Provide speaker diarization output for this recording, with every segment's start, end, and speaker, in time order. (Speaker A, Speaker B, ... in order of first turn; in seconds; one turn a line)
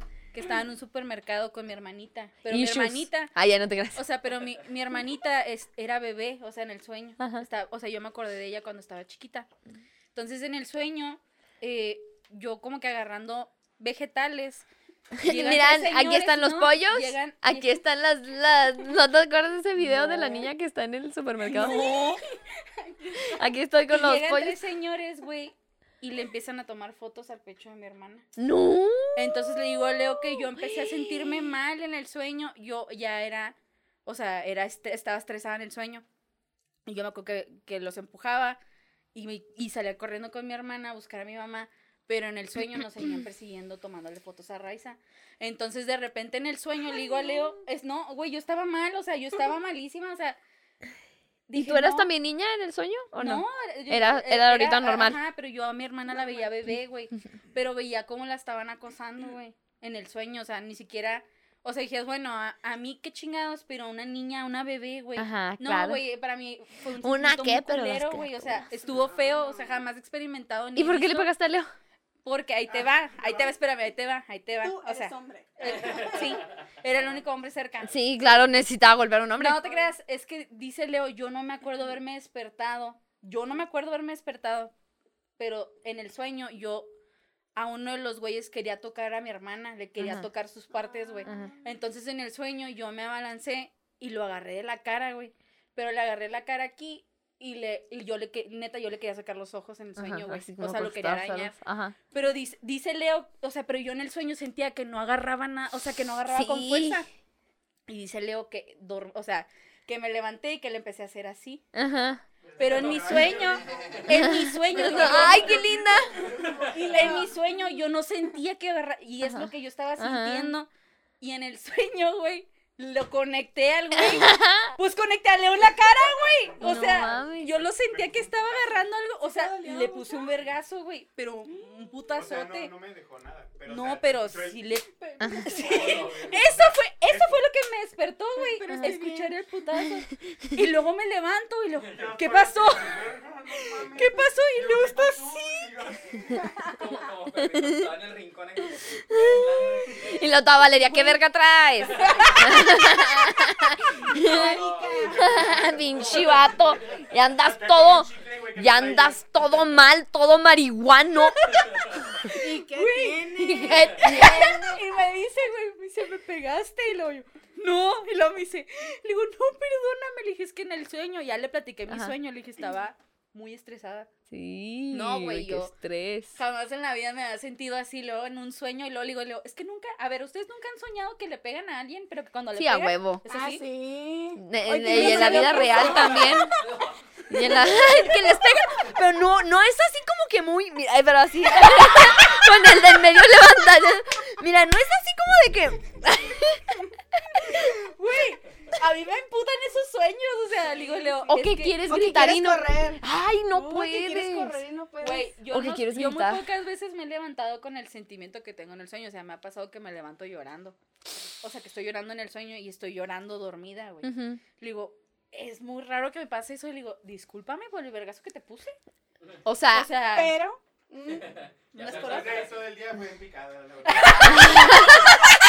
Speaker A: 0.3-3.3
Speaker B: 2.5-4.0
Speaker A: 3.9-9.5
Speaker B: 7.2-7.5
Speaker A: 10.1-14.7
Speaker B: 15.2-22.2
Speaker A: 15.2-17.8
Speaker A: 19.8-20.5
Speaker A: 21.5-22.2
Speaker C: 21.5-23.4
Speaker B: 23.2-24.6
Speaker A: 23.9-28.3
Speaker B: 28.4-31.4
Speaker A: 29.1-36.0
Speaker A: 36.9-38.6
Speaker A: 39.1-50.4
Speaker A: 51.5-52.1
Speaker B: 51.5-55.2
Speaker A: 53.1-71.3
Speaker C: 56.2-56.5
Speaker B: 65.2-66.0
Speaker B: 67.0-68.4
Speaker C: 68.9-69.8
Speaker B: 70.8-71.7
Speaker A: 72.2-78.0
Speaker C: 72.7-73.5
Speaker C: 74.6-76.4
Speaker B: 77.8-79.6
Speaker A: 79.4-84.7
Speaker A: 85.4-86.9
Speaker A: 87.5-101.5
Speaker B: 90.0-90.3
Speaker C: 90.8-91.8
Speaker B: 91.2-91.5
Speaker B: 100.0-102.0
Speaker A: 102.1-107.1
Speaker B: 106.3-107.0
Speaker A: 107.9-111.6
Speaker B: 111.7-112.2
Speaker D: 112.5-117.2
Speaker A: 112.6-115.8
Speaker E: 112.7-113.3
Speaker B: 114.2-116.1
Speaker C: 116.6-117.8
Speaker A: 116.7-120.7
Speaker B: 119.2-120.5
Speaker A: 121.2-132.7
Speaker B: 123.9-124.7
Speaker D: 125.6-128.7
Speaker B: 126.6-127.5
Speaker C: 129.3-130.4
Speaker D: 132.1-134.7
Speaker A: 133.7-146.1
Speaker C: 135.0-136.3
Speaker B: 135.2-135.6
Speaker E: 135.7-136.6
Speaker D: 137.0-137.4
Speaker C: 138.3-139.3
Speaker D: 141.9-146.7
Speaker E: 146.7-150.2
Speaker B: 147.5-147.8
Speaker B: 149.1-154.5
Speaker A: 150.8-151.2
Speaker E: 151.9-152.5
Speaker A: 152.0-152.4
Speaker C: 154.1-155.3
Speaker E: 154.3-157.0
Speaker D: 154.5-159.8
Speaker B: 155.1-161.5
Speaker E: 161.5-161.9
Speaker A: 162.2-174.1
Speaker C: 162.3-164.3
Speaker B: 163.4-164.8
Speaker B: 171.9-172.1
Speaker B: 174.3-176.4
Speaker A: 174.9-175.7
Speaker A: 176.3-183.6
Speaker B: 182.5-183.2
Speaker C: 183.3-186.6
Speaker B: 184.3-186.6
Speaker A: 184.9-186.2
Speaker E: 186.6-186.9
Speaker B: 187.3-196.8
Speaker C: 187.3-187.9
Speaker B: 197.3-197.7
Speaker A: 197.6-201.8
Speaker C: 200.7-201.3
Speaker B: 201.3-204.6
Speaker C: 201.8-205.3
Speaker A: 205.0-210.8
Speaker B: 205.5-206.4
Speaker A: 211.4-218.7
Speaker B: 214.0-214.4
Speaker B: 219.4-219.9
Speaker A: 219.7-220.3
Speaker C: 220.1-221.3
Speaker E: 221.1-222.7
Speaker A: 221.7-222.6
Speaker D: 221.8-225.1
Speaker A: 223.9-224.5
Speaker B: 224.4-225.2